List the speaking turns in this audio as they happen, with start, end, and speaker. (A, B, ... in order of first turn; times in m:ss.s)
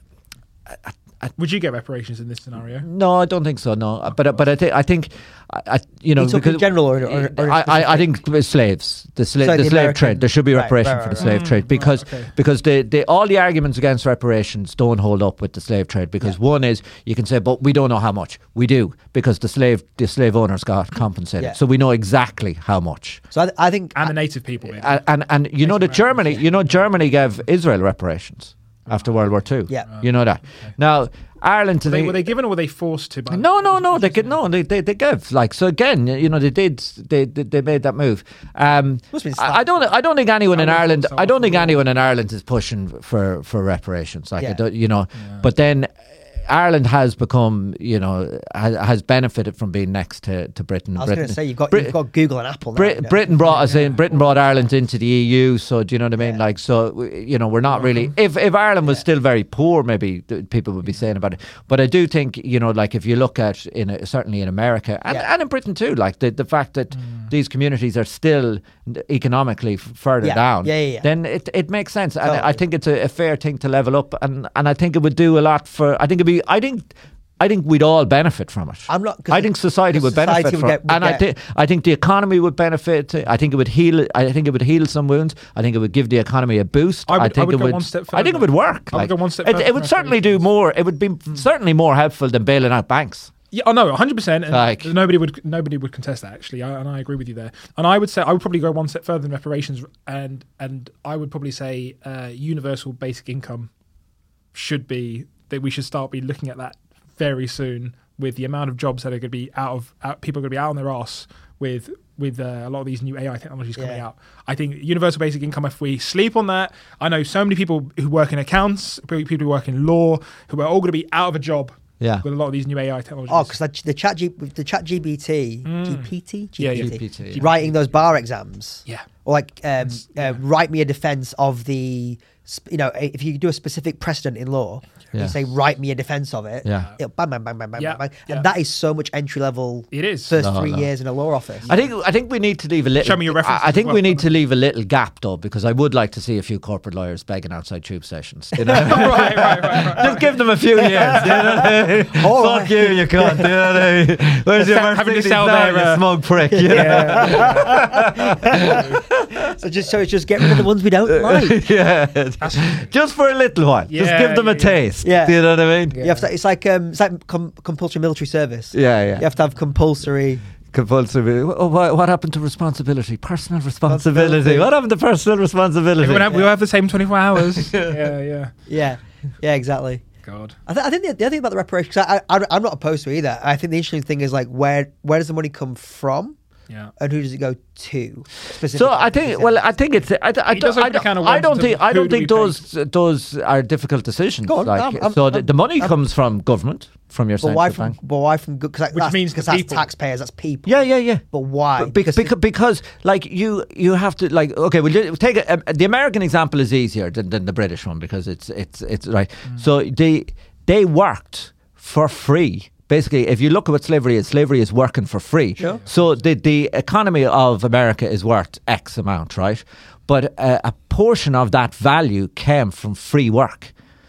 0:00.7-0:01.3 A
0:01.4-0:02.9 B
0:02.8-0:23.2 A
0:06.2-0:08.1 C
0:09.4-0:11.4 C
0:11.2-0:12.3 B
0:23.3-0:24.1 C
0:24.0-0:25.0 B
0:24.7-0:32.3 A
0:25.6-0:26.9 B
0:29.8-0:30.7 B
0:31.8-0:34.4 B
0:33.3-0:45.9 A
0:39.1-0:39.8 C
0:40.5-0:41.8 B
0:45.2-0:45.4 B
0:46.4-0:51.9 A
0:51.0-0:53.7 C
0:52.8-1:33.3 A
0:53.4-0:54.1 B
0:56.2-0:56.4 C
1:06.9-1:07.3 B
1:10.2-1:11.0 C
1:12.2-1:12.6 C
1:18.9-1:21.2 C
1:27.1-1:30.4 B
1:33.5-1:43.7 B
1:34.5-1:34.9 A
1:44.5-2:03.6 B
1:53.8-1:54.0 C
2:03.3-2:21.7 C
2:05.6-2:07.7 B
2:06.8-2:07.5 A
2:09.8-2:10.4 B
2:15.1-2:15.4 A
2:16.6-2:16.9 A
2:17.8-2:18.5 B
2:19.9-2:20.3 B
2:20.4-2:20.9 A
2:21.6-2:21.9 B
2:21.7-2:39.5 A
2:23.0-2:24.3 B
2:28.6-2:30.1 C
2:28.7-2:31.4 B
2:30.8-2:33.6 C
2:34.6-2:36.0 B
2:36.5-2:41.6 C
2:36.6-2:37.8 B
2:38.6-2:39.0 B
2:40.4-2:46.0 A
2:42.4-2:42.9 B
2:43.9-2:44.8 B
2:45.0-2:45.4 C
2:45.9-2:46.3 B
2:45.9-2:50.4 C
2:48.7-2:49.2 A
2:50.7-2:56.3 A
2:53.8-2:54.7 C
2:56.0-2:58.5 B
2:57.4-2:58.1 A
2:58.7-3:00.0 C
3:00.2-3:00.6 B
3:00.6-3:06.4 C
3:07.0-3:09.6 C
3:08.7-3:18.0 A
3:10.5-3:12.6 B
3:14.5-3:15.9 C
3:17.4-3:22.3 C
3:18.9-3:19.9 B
3:20.6-3:21.2 A
3:21.8-3:43.7 A